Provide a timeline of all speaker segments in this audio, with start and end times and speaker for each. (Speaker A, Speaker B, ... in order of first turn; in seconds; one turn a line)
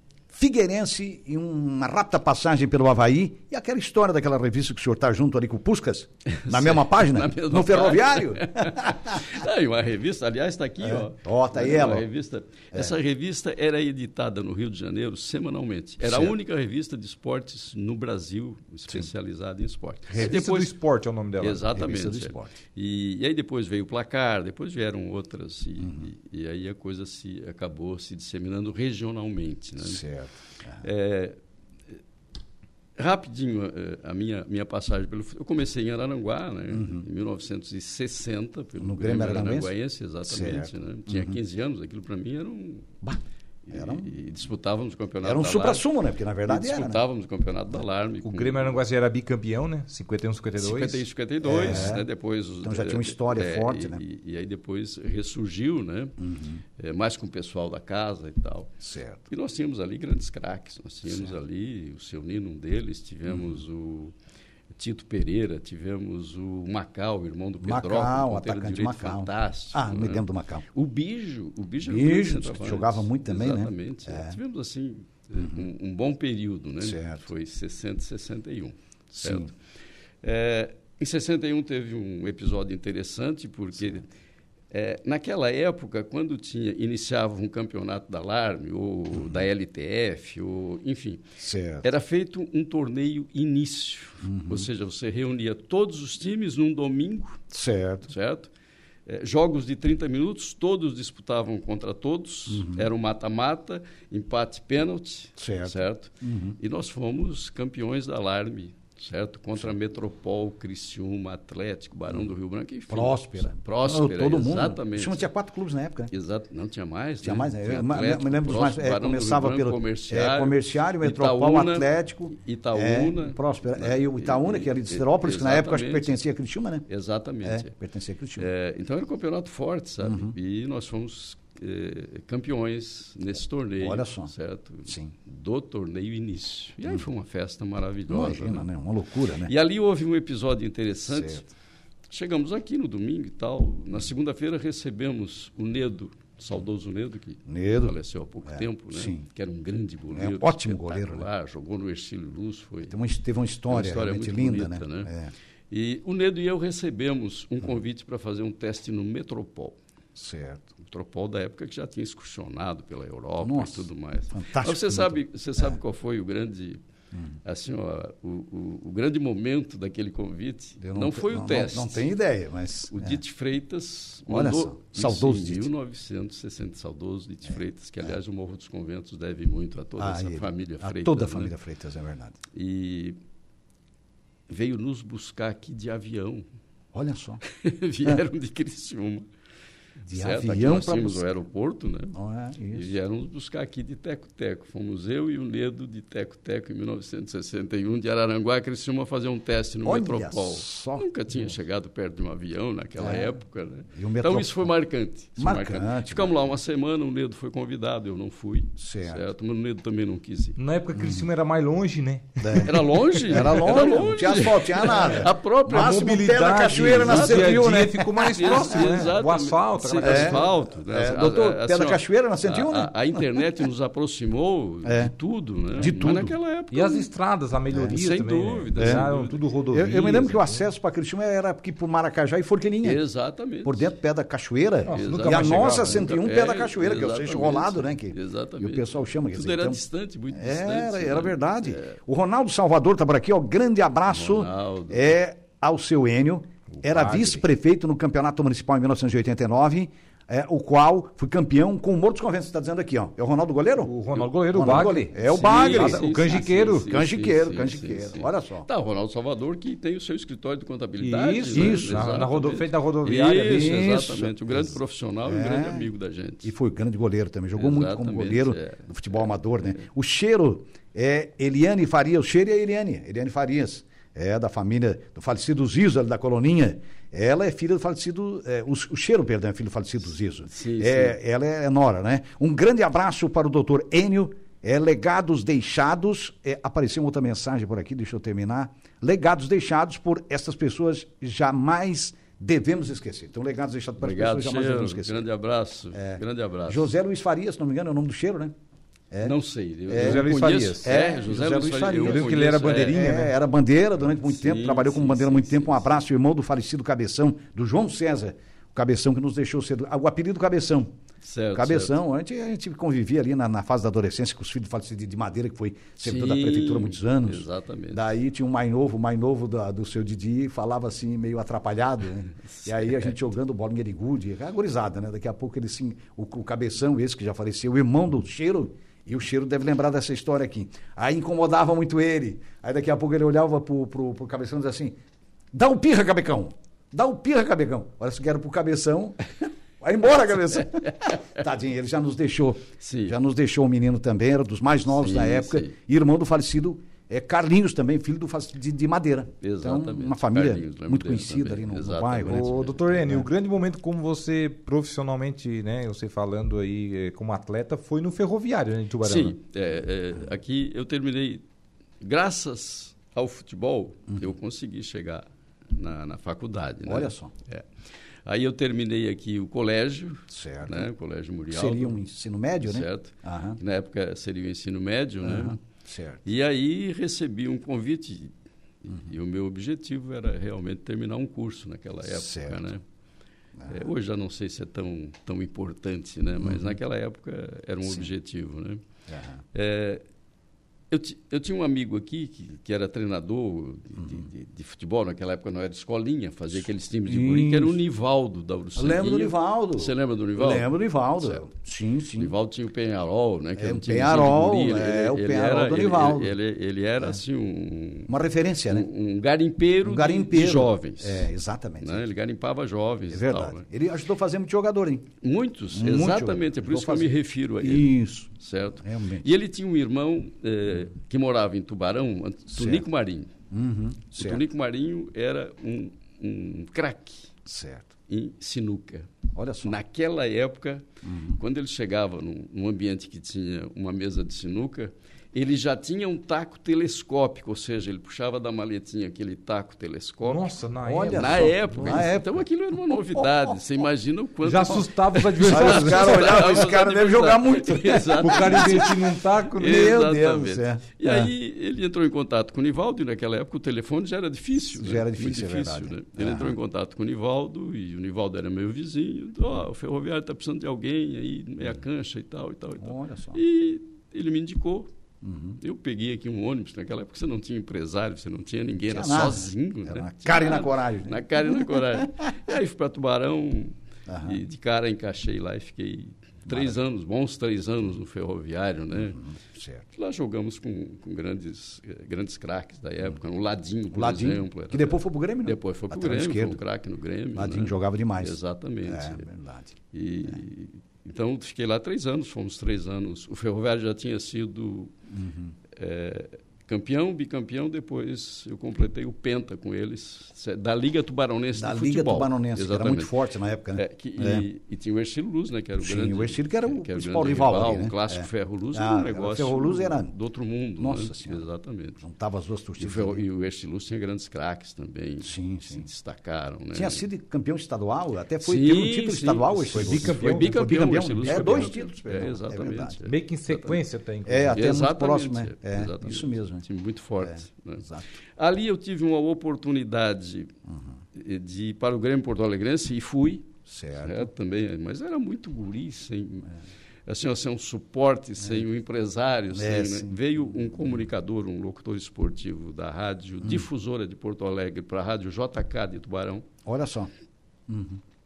Speaker A: 0.3-9.2
Speaker B: 6.3-20.7
Speaker A: 10.8-12.1
Speaker A: 16.0-16.4
Speaker A: 20.1-20.4
Speaker C: 20.2-21.7
Speaker B: 21.4-30.0
Speaker A: 21.7-22.5
Speaker A: 25.8-26.1
Speaker A: 29.8-30.8
Speaker B: 30.8-31.4
Speaker B: 33.0-42.9
Speaker A: 36.7-37.0
Speaker A: 38.8-39.7
Speaker A: 40.2-41.4
Speaker A: 43.0-44.1
Speaker B: 43.7-45.9
Speaker A: 45.2-47.0
Speaker B: 46.5-48.8
Speaker C: 48.2-51.0
Speaker B: 50.6-56.1
Speaker A: 51.4-52.1
Speaker A: 52.6-54.0
Speaker A: 56.2-56.6
Speaker B: 56.8-58.7
Speaker A: 58.8-59.2
Speaker B: 59.3-64.1
Speaker A: 61.1-61.3
Speaker A: 63.3-63.6
Speaker B: 64.8-79.5
Speaker A: 67.6-70.7
Speaker A: 71.8-74.4
Speaker A: 75.4-75.7
Speaker A: 76.8-77.2
Speaker A: 79.1-79.5
Speaker B: 80.2-84.0
Speaker B: 84.7-91.2
Speaker A: 91.4-91.9
Speaker B: 91.8-97.4
Speaker A: 94.2-94.7
Speaker A: 97.5-98.1
Speaker B: 98.1-98.5
Speaker B: 99.1-115.3
Speaker A: 102.5-102.9
Speaker A: 105.4-106.6
Speaker A: 112.9-116.1
Speaker B: 116.1-126.2
Speaker A: 117.2-126.8
Speaker B: 126.9-127.7
Speaker A: 127.4-128.5
Speaker B: 128.4-138.7
Speaker A: 130.0-130.3
Speaker A: 133.8-134.3
Speaker A: 134.9-135.1
Speaker A: 138.1-139.5
Speaker B: 139.5-141.5
Speaker A: 141.1-141.4
Speaker B: 142.1-152.9
Speaker A: 147.5-149.2
Speaker A: 150.1-151.3
Speaker A: 152.8-155.3
Speaker B: 153.7-155.1
Speaker B: 155.7-159.8
Speaker A: 160.2-160.7
Speaker B: 160.8-166.8
Speaker A: 163.4-165.8
Speaker B: 167.4-172.1
Speaker A: 170.8-173.2
Speaker B: 172.9-181.5
Speaker A: 174.3-175.7
Speaker A: 180.0-182.4
Speaker B: 182.5-183.2
Speaker B: 184.5-186.4
Speaker A: 186.9-187.4
Speaker B: 187.5-189.3
Speaker A: 190.1-191.3
Speaker B: 190.1-192.2
Speaker A: 192.1-192.9
Speaker B: 192.7-210.6
Speaker A: 199.8-201.1
Speaker A: 203.0-203.3
Speaker A: 203.9-204.7
Speaker A: 205.4-206.3
Speaker A: 208.8-209.2
Speaker C: 210.6-212.7
Speaker A: 210.9-211.3
Speaker A: 212.4-218.9
Speaker B: 212.6-227.1
Speaker C: 215.7-220.4
Speaker A: 220.0-223.2
Speaker A: 224.8-225.1
Speaker A: 225.8-226.3
Speaker C: 226.7-230.6
Speaker A: 227.7-228.0
Speaker B: 227.9-229.4
Speaker A: 228.8-229.1
Speaker A: 229.7-233.0
Speaker B: 232.8-233.9
Speaker A: 233.6-239.8
Speaker C: 234.8-236.1
Speaker B: 234.9-242.0
Speaker A: 240.3-258.7
Speaker B: 244.1-245.1
Speaker C: 246.8-247.4
Speaker C: 253.8-256.9
Speaker B: 255.3-266.5
Speaker C: 261.0-263.9
Speaker A: 261.5-262.3
Speaker A: 263.4-265.9
Speaker A: 266.4-295.2
Speaker B: 267.6-269.8
Speaker B: 280.5-281.2
Speaker B: 294.0-296.9
Speaker A: 295.9-298.5
Speaker B: 299.2-303.0
Speaker A: 299.9-300.3
Speaker C: 300.0-300.9
Speaker A: 300.8-310.9
Speaker C: 302.0-303.3
Speaker B: 304.2-305.8
Speaker B: 311.2-312.0
Speaker A: 311.5-335.0
Speaker B: 316.0-318.1
Speaker A: 335.5-339.2
Speaker A: 339.8-353.3
Speaker B: 340.8-341.2
Speaker B: 342.8-343.2
Speaker B: 345.0-345.7
Speaker B: 349.4-352.8
Speaker C: 352.3-359.4
Speaker B: 359.0-361.4
Speaker B: 362.0-367.6
Speaker A: 366.9-367.3
Speaker B: 368.3-372.0
Speaker A: 370.3-370.9
Speaker A: 371.5-373.6
Speaker B: 372.6-375.6
Speaker A: 375.2-376.3
Speaker B: 376.3-378.3
Speaker B: 378.8-382.8
Speaker A: 382.1-382.7
Speaker B: 383.7-388.8
Speaker A: 386.4-386.8
Speaker A: 389.1-389.4
Speaker B: 389.5-390.0
Speaker B: 390.9-401.4
Speaker A: 394.0-394.2
Speaker A: 397.1-397.8
Speaker A: 398.8-402.3
Speaker B: 402.2-408.1
Speaker A: 403.6-406.4
Speaker A: 408.1-408.9
Speaker B: 408.7-411.3
Speaker A: 409.8-412.1
Speaker B: 411.8-413.6
Speaker A: 413.1-415.1
Speaker B: 415.2-423.3
Speaker A: 415.7-419.3
Speaker A: 422.6-422.9
Speaker A: 423.5-424.4
Speaker B: 424.1-427.3
Speaker A: 427.5-427.9
Speaker B: 428.1-429.1
Speaker A: 429.4-429.8
Speaker B: 429.6-430.9
Speaker A: 431.0-431.4
Speaker B: 431.4-440.6
Speaker C: 440.2-442.1
Speaker A: 440.8-442.3
Speaker B: 441.1-449.0
Speaker A: 443.1-443.5
Speaker C: 444.4-446.6
Speaker A: 445.4-448.9
Speaker C: 448.2-449.8
Speaker A: 449.6-451.3
Speaker B: 449.6-464.9
Speaker A: 454.8-456.6
Speaker A: 462.8-463.4
Speaker A: 465.2-465.6
Speaker B: 465.6-479.2
Speaker A: 468.9-472.3
Speaker A: 474.1-474.4
Speaker A: 476.5-476.8
Speaker A: 478.9-479.9
Speaker B: 480.0-489.2
Speaker A: 483.9-486.6
Speaker A: 487.4-489.8
Speaker B: 489.9-494.9
Speaker A: 495.1-495.6
Speaker B: 495.8-503.1
Speaker A: 501.6-504.4
Speaker B: 503.8-512.0
Speaker A: 505.8-510.1
Speaker A: 510.8-511.4
Speaker A: 512.0-513.2
Speaker B: 512.8-517.0
Speaker A: 515.2-515.9
Speaker A: 516.7-523.0
Speaker B: 518.4-523.8
Speaker C: 519.7-521.7
Speaker C: 523.1-524.6
Speaker A: 524.3-526.6
Speaker B: 524.5-527.9
Speaker A: 527.2-528.2
Speaker B: 528.4-530.5
Speaker B: 531.2-536.5
Speaker A: 533.7-534.3
Speaker B: 537.1-546.5
Speaker A: 539.5-540.1
Speaker A: 546.7-547.1
Speaker A: 547.7-548.0